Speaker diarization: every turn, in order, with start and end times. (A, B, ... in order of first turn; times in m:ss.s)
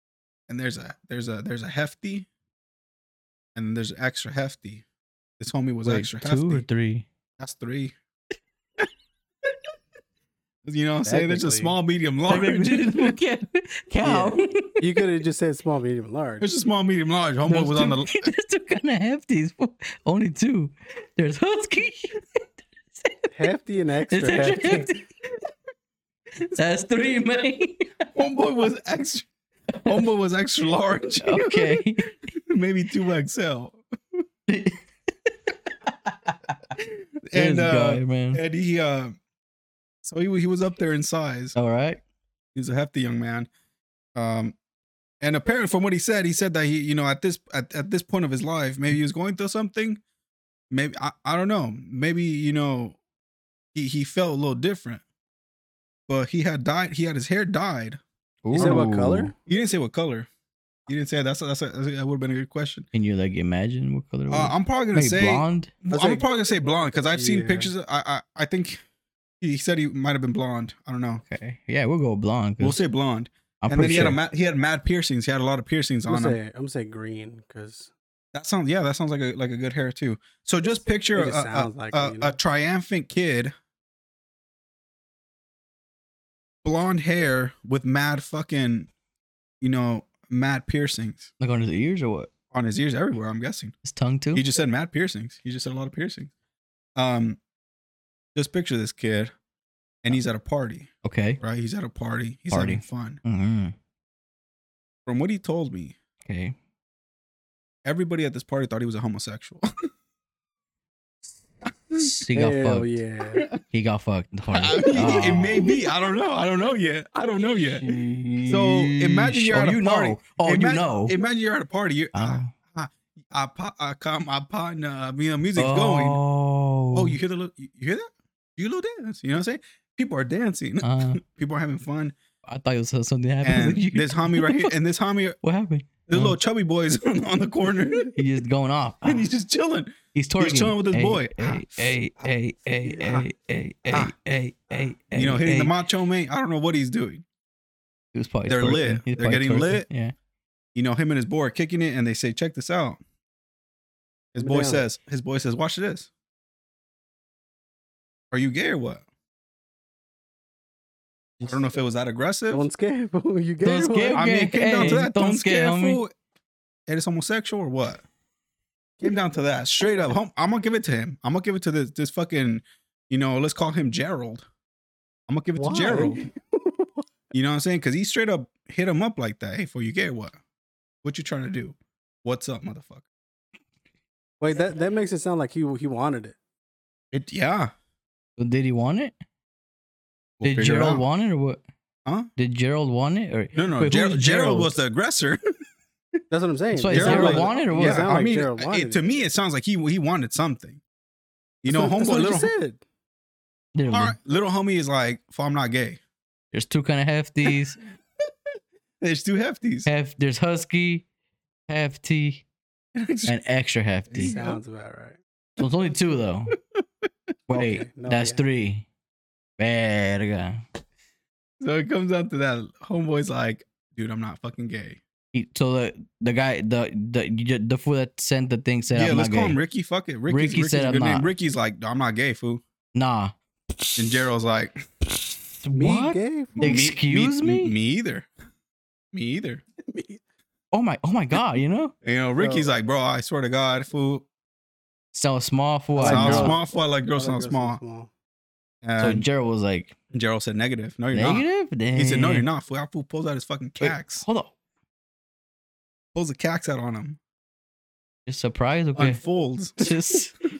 0:00.5-0:02.3 A
0:03.5-0:04.8 A
0:05.4-0:06.6 A
0:05.8-0:07.1 B
0:07.4-0:08.0 A
0:10.6-0:13.2 A
0:11.0-0:11.7 C
0:12.3-0:14.8 B
0:14.0-0:16.5 C
0:16.4-0:18.3 A
0:17.4-0:22.2 B
0:22.9-0:23.3 B
0:23.3-0:24.9 C
0:24.1-0:25.0 B
0:26.4-0:27.9 B
0:28.1-0:29.3 A
0:29.8-0:33.8 A
0:31.2-0:32.1 B
0:34.5-0:36.6 B
0:36.8-0:39.1 A
0:37.3-0:38.4 B
0:40.0-0:41.5 A
0:41.5-0:42.0 B
0:42.5-0:43.5 A
0:44.2-0:44.5 A
0:45.2-0:50.0 A
0:50.7-0:53.0 A
0:53.7-0:55.0 A
0:56.1-0:58.9 A
0:58.4-0:59.3 B
0:58.5-0:59.3 C
0:59.5-1:00.3 A
1:00.9-1:02.9 A
1:02.9-1:05.7 B
1:04.3-1:08.8 A
1:05.9-1:06.2 C
1:07.1-1:07.7 C
1:09.4-1:11.2 A
1:11.2-1:12.8 B
1:12.6-1:16.4 A
1:13.6-1:14.2 B
1:16.1-1:17.9 C
1:18.3-1:23.5 A
1:21.1-1:22.4 C
1:26.6-1:28.9 A
1:29.6-1:31.3 A
1:31.4-1:32.3 B
1:32.5-1:33.7 A
1:33.8-1:34.4 B
1:34.3-1:36.3 A
1:37.0-1:37.4 A
1:38.4-1:39.3 A
1:40.0-1:43.2 A
1:41.0-1:41.4 B
1:42.5-1:43.7 B
1:45.1-1:46.0 A
1:46.2-1:46.5 B
1:47.8-1:49.7 A
1:51.9-1:53.0 B
1:52.3-1:53.5 C
1:53.6-1:55.8 B
1:54.5-1:58.0 A
1:57.8-2:01.2 B
1:58.5-2:06.2 A
2:02.1-2:02.5 B
2:05.6-2:07.2 B
2:06.9-2:12.1 A
2:10.8-2:11.2 B
2:12.5-2:14.7 B
2:13.4-2:15.4 A
2:15.4-2:16.4 B
2:16.1-2:18.2 A
2:18.1-2:19.2 B
2:19.0-2:21.9 A
2:20.1-2:25.7 B
2:22.9-2:23.2 A
2:25.1-2:27.2 A
2:28.1-2:30.1 B
2:28.5-2:29.9 A
2:30.8-2:33.0 A
2:34.3-2:36.1 A
2:34.4-2:34.8 C
2:38.3-2:39.0 A
2:41.4-2:42.6 A
2:42.5-2:44.2 C
2:43.6-2:46.0 B
2:44.1-2:46.1 A
2:46.9-2:48.0 A
2:49.0-2:54.5 A
2:55.3-2:56.2 A
2:55.6-2:56.9 C
2:57.3-3:00.4 A
3:01.0-3:03.0 A
3:04.4-3:06.4 C
3:07.1-3:07.7 A
3:08.4-3:09.1 B
3:10.4-3:11.0 A
3:10.4-3:11.6 B
3:12.4-3:14.7 B
3:13.5-3:15.4 A
3:16.3-3:19.0 C
3:16.8-3:18.1 B
3:16.9-3:20.8 A
3:21.6-3:22.5 A
3:21.7-3:22.8 C
3:23.8-3:24.2 B
3:23.9-3:26.0 A
3:26.5-3:27.8 B
3:29.0-3:29.9 A
3:29.9-3:31.0 B
3:31.7-3:32.4 B
3:32.9-3:33.4 A
3:33.2-3:34.4 B
3:34.1-3:34.6 A
3:34.2-3:35.2 C
3:35.6-3:36.6 B
3:37.5-3:38.9 B
3:37.5-3:38.4 C
3:39.6-3:40.6 B
3:41.6-3:45.0 A
3:45.3-3:49.6 B
3:48.9-3:52.6 A
3:50.3-3:51.3 B
3:53.0-3:54.2 B
3:54.0-3:54.8 A
3:55.3-3:57.7 B
3:55.7-3:56.8 C
3:56.6-3:58.3 A
3:59.1-3:59.6 A
3:59.9-4:00.2 C
4:00.7-4:01.9 B
4:02.0-4:04.2 A
4:02.4-4:02.7 C
4:05.1-4:06.6 B
4:06.0-4:08.1 C
4:06.0-4:07.8 A
4:08.8-4:09.2 A
4:09.0-4:10.0 B
4:10.1-4:14.2 A
4:11.1-4:12.5 B
4:13.8-4:14.5 B
4:16.1-4:17.2 A
4:18.3-4:19.2 B
4:19.0-4:19.9 A
4:19.8-4:20.4 B